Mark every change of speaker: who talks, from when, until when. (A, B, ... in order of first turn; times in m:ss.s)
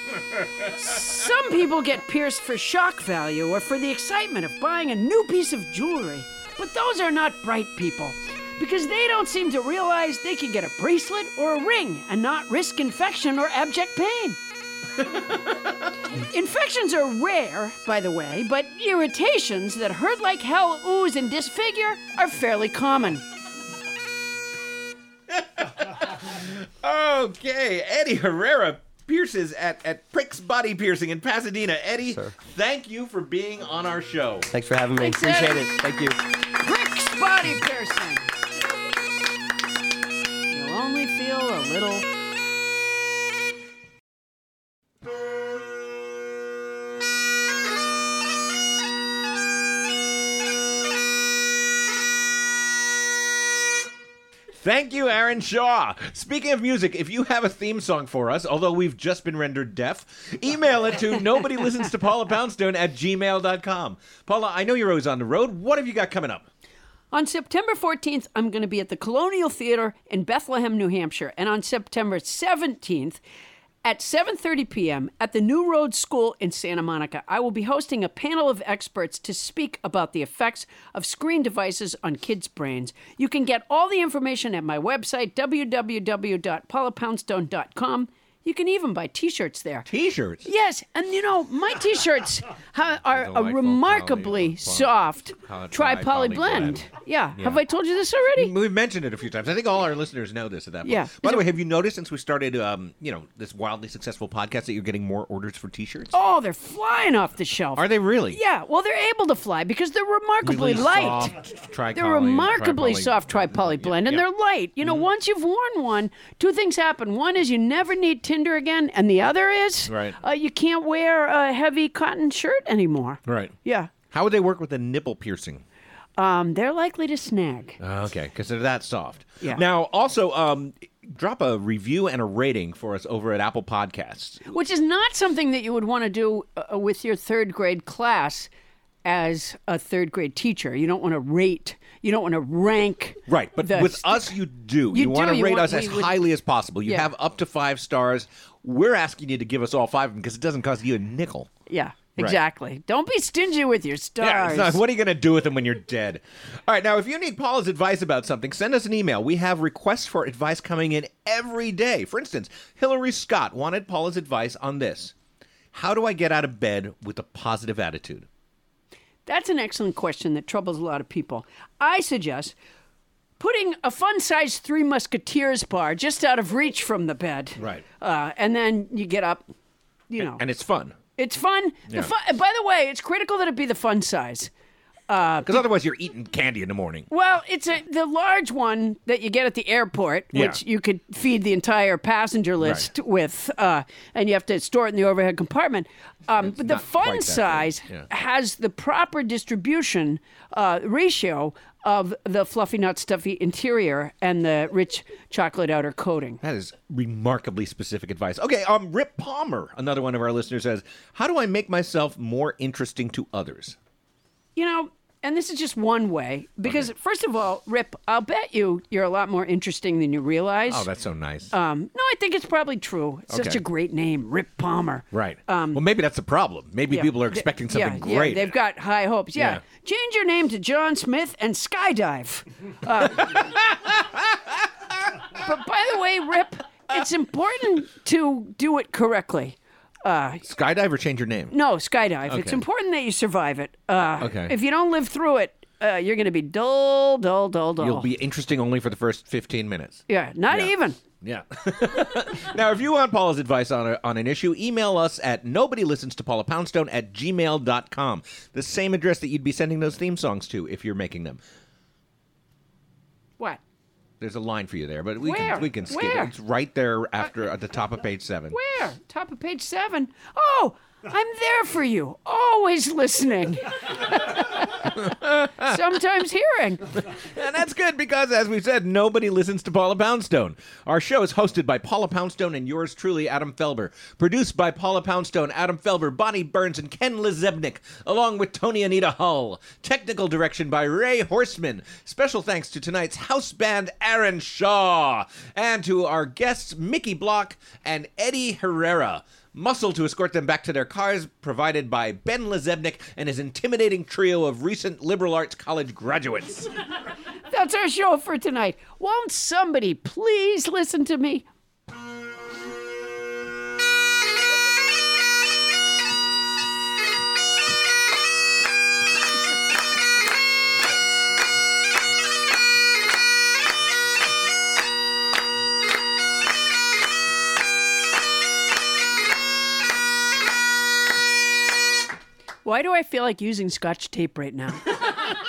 0:00.6-0:14.4 A
0:16.1-0:23.2 A
0:25.3-0:34.5 B
0:32.1-0:32.3 C
0:34.5-0:36.2 C
0:35.0-0:35.7 A
0:36.4-0:38.2 A
0:40.5-0:42.0 A
0:54.6-1:06.4 B
1:07.1-1:13.2 A
1:13.8-1:29.9 A
1:29.9-1:30.5 B
1:30.4-1:38.5 A
1:33.1-1:36.9 B
1:38.4-1:46.1 B
1:40.8-1:41.5 A
1:46.1-1:51.4 A
1:47.8-1:48.4 B
1:50.4-1:54.2 B
1:51.9-2:03.9 A
1:59.9-2:00.2 B
2:03.2-2:03.5 B
2:04.1-2:05.6 B
2:06.2-2:07.8 A
2:07.8-2:14.4 B
2:14.5-2:18.5 A
2:19.0-2:24.3 A
2:23.3-2:31.5 B
2:24.9-2:26.2 A
2:31.7-2:34.8 A
2:34.2-2:45.1 B
2:45.7-2:48.3 B
2:49.2-2:52.5 A
2:53.4-2:59.4 A
2:57.6-2:57.8 B
3:00.1-3:00.4 A
3:00.2-3:01.0 B
3:01.2-3:04.5 A
3:05.1-3:05.6 A
3:05.4-3:07.1 B
3:07.1-3:26.4 A
3:10.3-3:10.6 B
3:12.6-3:12.9 B
3:16.4-3:18.1 B
3:26.4-3:33.8 B
3:34.6-3:40.9 A
3:40.7-3:41.5 B
3:41.5-3:45.8 A
3:43.3-3:43.6 B
3:45.1-3:48.5 B
3:46.9-3:53.5 A
3:49.4-3:49.6 B
3:53.2-3:54.4 B
3:55.3-4:00.4 A
4:00.4-4:01.6 B
4:01.5-4:08.1 A
4:02.3-4:02.6 B
4:04.2-4:04.5 B
4:07.8-4:21.4 B
4:10.1-4:11.0 A
4:24.2-4:28.6 B
4:25.2-4:26.3 A
4:28.5-4:34.9 A
4:35.0-4:35.8 B
4:35.6-4:36.9 A
4:37.1-5:06.7 B
5:07.5-5:11.4 A
5:32.6-5:34.9 A